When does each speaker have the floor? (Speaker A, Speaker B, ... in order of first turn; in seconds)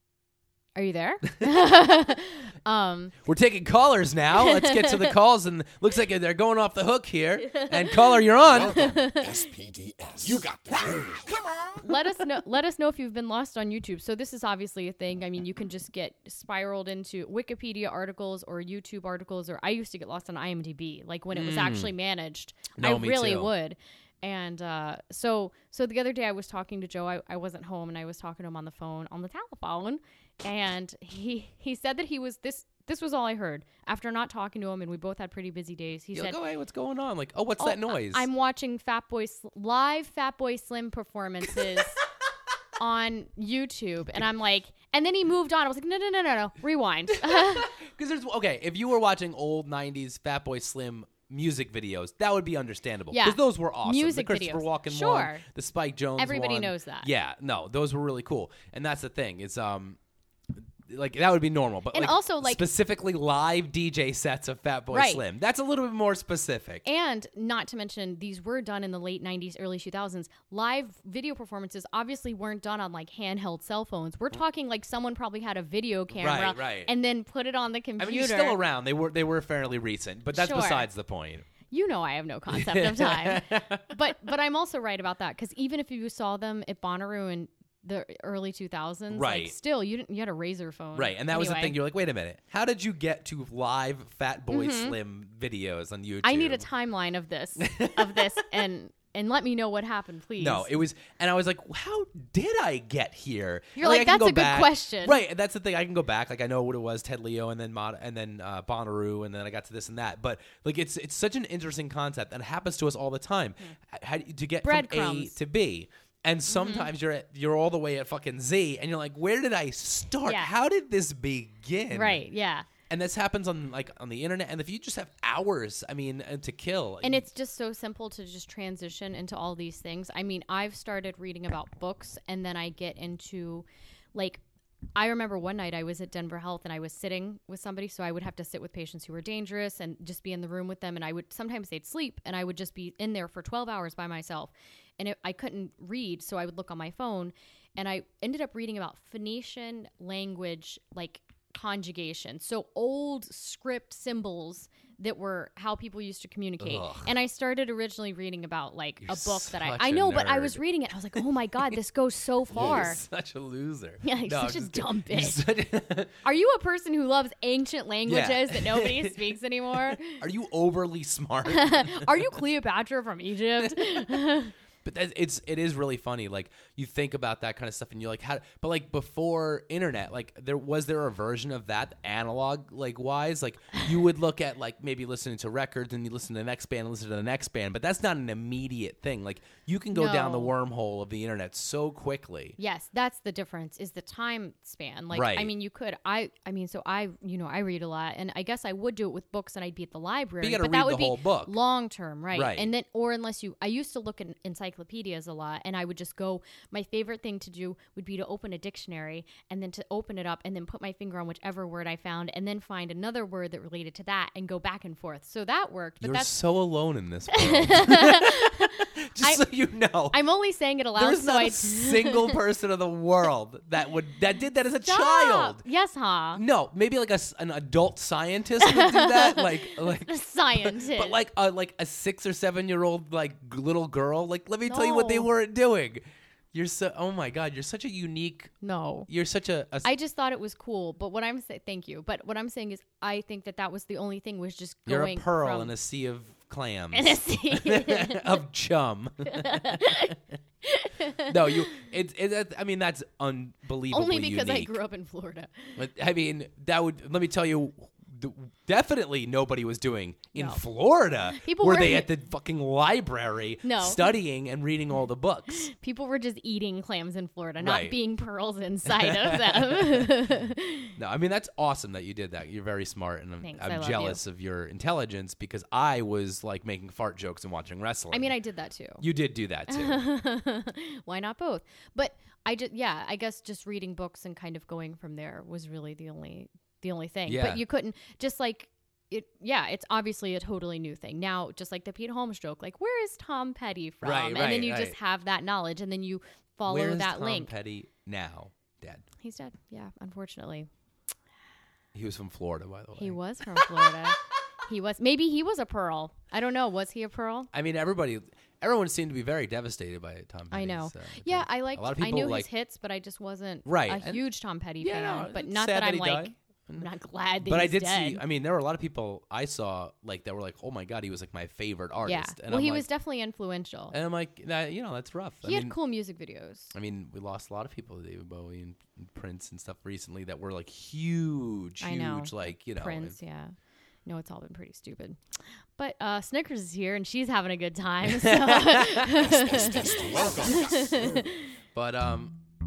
Speaker A: 0.8-3.1, 4.4-5.2, 8.7-9.5, 11.8-36.4, 37.6-42.0, 42.8-47.7, 53.1-55.4, 56.2-57.1, 61.9-62.6, 64.9-65.2, 66.8-78.6, 80.3-80.9, 81.7-91.8, 94.5-95.0, 96.2-100.7, 103.8-105.2, 114.6-115.4, 116.5-116.9, 120.2-120.5, 121.9-122.7, 127.0-134.4, 135.0-163.0, 164.0-165.4, 166.2-170.2, 171.4-174.5, 189.9-190.5, 192.6-216.3, 217.3-219.4, 220.1-222.4, 224.8-226.4, 228.6-231.2, 234.7-235.3, 238.6-239.1, 239.8-245.7, 246.9-248.4, 249.3-251.8, 253.9-255.8, 260.4-260.6, 261.3-262.1, 263.6-264.2, 265.5-270.9, 273.4-274.2, 278.1-279.0, 279.7-297.5, 299.2-300.7, 303.0-307.5, 310.5-318.2, 322.1-323.9, 325.4-326.7, 331.8-333.5, 334.1-335.2, 335.8-341.5
Speaker B: 1.3-1.6, 3.2-8.9, 21.3-21.9, 22.8-23.5, 36.1-38.3, 47.1-60.0, 60.5-66.8, 76.1-76.9, 78.0-81.5, 82.5-84.0, 89.1-89.5, 91.0-96.7, 97.6-98.4, 100.4-122.3, 122.9-127.3, 156.6-157.1, 159.0-161.8, 162.5-166.2, 168.1-172.4, 173.6-174.3, 174.8-192.6, 195.1-195.5, 200.4-201.6, 202.3-202.7, 216.0-220.2, 221.0-225.6, 226.3-238.5, 239.1-239.9, 244.9-250.2, 251.2-254.8, 255.8-265.7, 267.6-268.0, 268.9-270.2, 271.0-278.4, 279.0-280.0, 287.3-287.6, 294.0-295.0, 296.6-299.1, 301.9-304.0, 307.5-312.5, 313.7-314.2, 314.8-316.9, 317.4-322.9, 323.9-325.8, 326.7-333.1, 338.1-339.3, 341.7-342.4
Speaker C: 8.5-11.8, 339.2-341.1